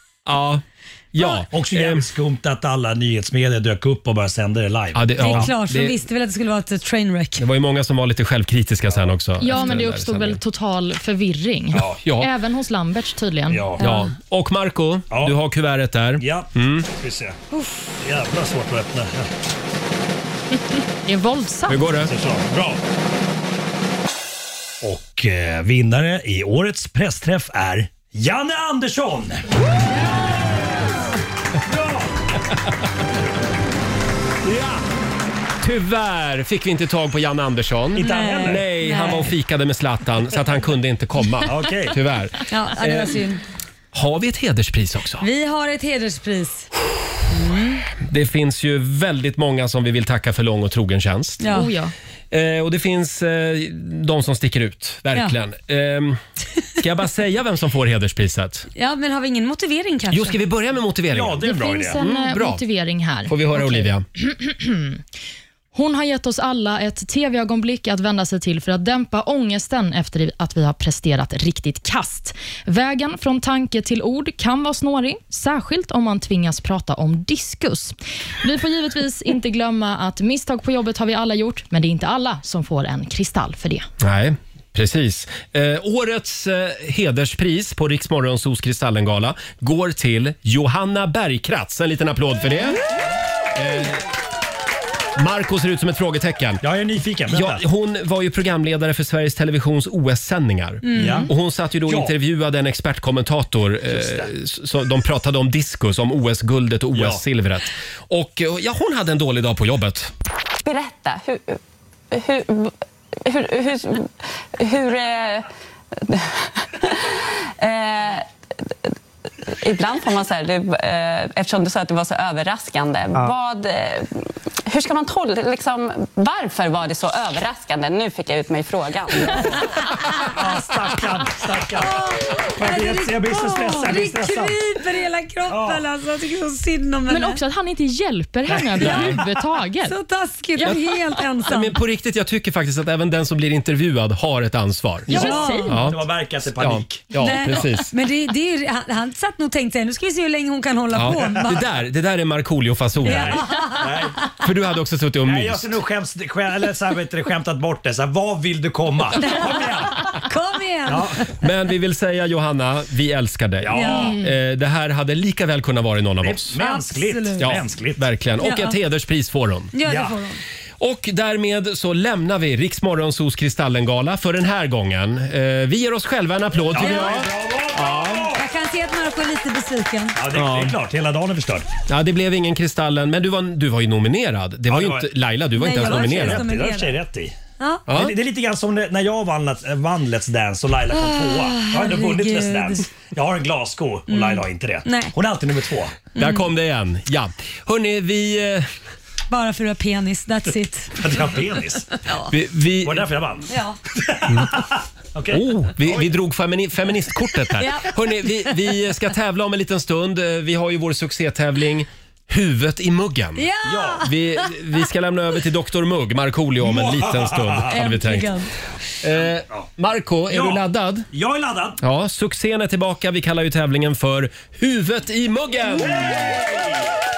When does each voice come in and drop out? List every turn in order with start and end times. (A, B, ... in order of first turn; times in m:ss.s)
0:00.3-0:02.1 A
0:01.4-0:05.5 B
0:05.0-0:06.0 A
0:05.2-0:07.4 C
0:07.4-0:10.4 A
0:09.4-0:13.7 D
0:11.7-0:12.0 B
0:12.0-0:12.3 A
0:13.5-0:13.9 B
0:13.8-0:16.9 A
0:13.8-0:14.1 C
0:16.2-0:17.4 B
0:17.5-0:17.9 C
0:18.0-0:19.3 B
0:21.0-0:21.8 D
0:21.7-0:22.1 A
0:22.0-0:22.8 B
0:24.8-0:29.4 B
0:31.6-0:32.1 B
0:34.4-0:34.8 A
0:35.6-0:43.2 A
0:38.0-0:38.6 B
0:38.0-0:39.3 C
0:41.4-0:42.0 B
0:42.5-0:43.4 C
0:43.9-0:45.3 A
0:45.2-0:46.7 C
0:47.3-0:47.8 C
0:48.0-0:51.5 A
0:51.4-0:51.7 C
0:51.5-0:51.9 D
0:52.3-0:56.2 A
0:56.8-0:58.7 A
0:58.8-1:00.4 C
1:00.1-1:02.6 A
1:01.1-1:02.0 B
1:01.4-1:05.0 D
1:03.3-1:04.0 A
1:05.7-1:23.9 D
1:24.0-1:32.8 A
1:33.5-1:34.0 A
1:35.2-1:36.6 A
1:36.6-1:37.6 B
1:37.3-1:50.1 A
1:40.8-1:41.3 C
1:41.0-1:41.3 B
1:41.9-1:42.1 B
1:43.9-1:44.3 B
1:46.9-1:47.2 B
1:50.6-1:51.6 E
1:52.1-1:58.3 E
1:59.5-2:09.5 E
2:10.3-2:12.0 B
2:11.8-2:17.4 C
2:12.6-2:14.6 B
2:15.5-2:15.8 B
2:17.1-2:20.0 D
2:18.5-2:19.1 B
2:18.8-2:19.1 C
2:18.8-2:19.2 A
2:19.8-2:21.7 C
2:21.4-2:27.9 A
2:25.1-2:25.8 C
2:25.1-2:25.8 D
2:25.1-2:27.0 B
2:27.2-2:31.6 C
2:30.9-2:33.4 A
2:33.0-2:33.9 C
2:33.1-2:34.2 B
2:34.4-2:35.8 A
2:35.2-2:40.2 B
2:39.2-2:41.3 C
2:40.9-2:41.2 B
2:41.4-2:46.6 A
2:43.6-2:44.2 B
2:43.7-2:44.2 C
2:46.2-2:48.0 B
2:46.6-2:47.5 C
2:47.4-2:49.7 A
2:48.4-2:48.8 C
2:49.7-2:50.4 C
2:49.8-2:50.2 B
2:50.8-2:58.3 A
2:56.6-2:58.4 B
2:56.8-2:57.2 C
2:58.3-3:00.2 C
3:00.2-3:01.7 B
3:00.3-3:00.8 A
3:01.9-3:06.5 A
3:04.7-3:05.1 B
3:05.6-3:07.0 C
3:05.7-3:07.4 B
3:07.6-3:07.8 C
3:07.9-3:08.2 A
3:07.9-3:16.0 B
3:10.9-3:12.8 C
3:14.1-3:15.1 C
3:16.2-3:18.7 A
3:16.2-3:16.5 C
3:19.3-3:21.0 C
3:21.0-3:21.9 B
3:22.0-3:22.3 C
3:22.3-3:23.1 A
3:22.8-3:26.1 B
3:23.5-3:23.8 C
3:25.3-3:33.5 A
3:27.6-3:28.5 C
3:33.4-3:34.5 C
3:33.6-3:34.0 B
3:34.0-3:38.4 A
3:36.6-3:37.7 B
3:37.7-3:38.5 C
3:39.0-3:41.1 A
3:39.1-3:39.7 B
3:40.3-3:41.8 B
3:41.8-3:46.4 A
3:45.8-3:46.9 B